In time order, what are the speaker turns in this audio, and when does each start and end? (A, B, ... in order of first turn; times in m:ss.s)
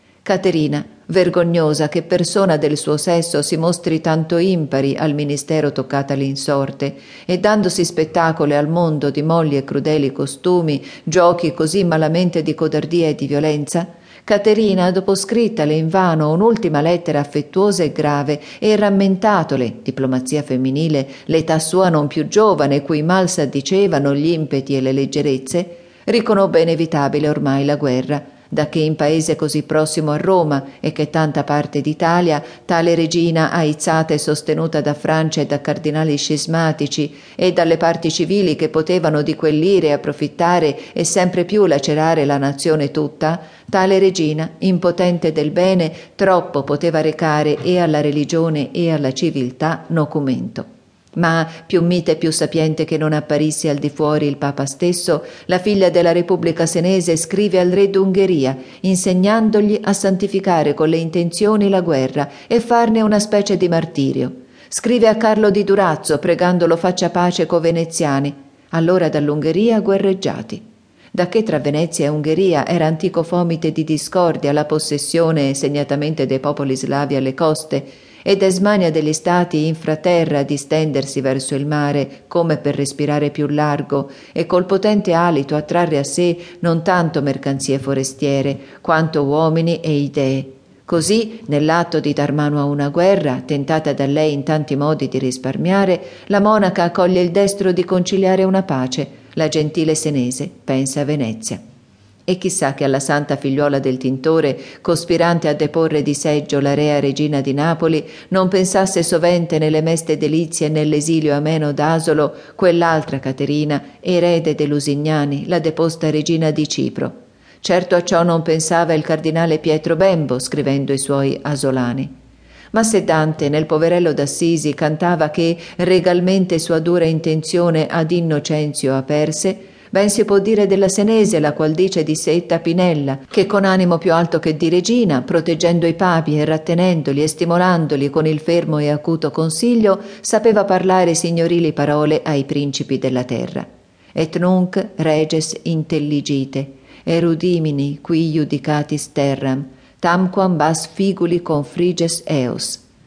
0:00.2-1:41.6 A
1:42.3-2:02.1 A
2:02.7-2:32.8 A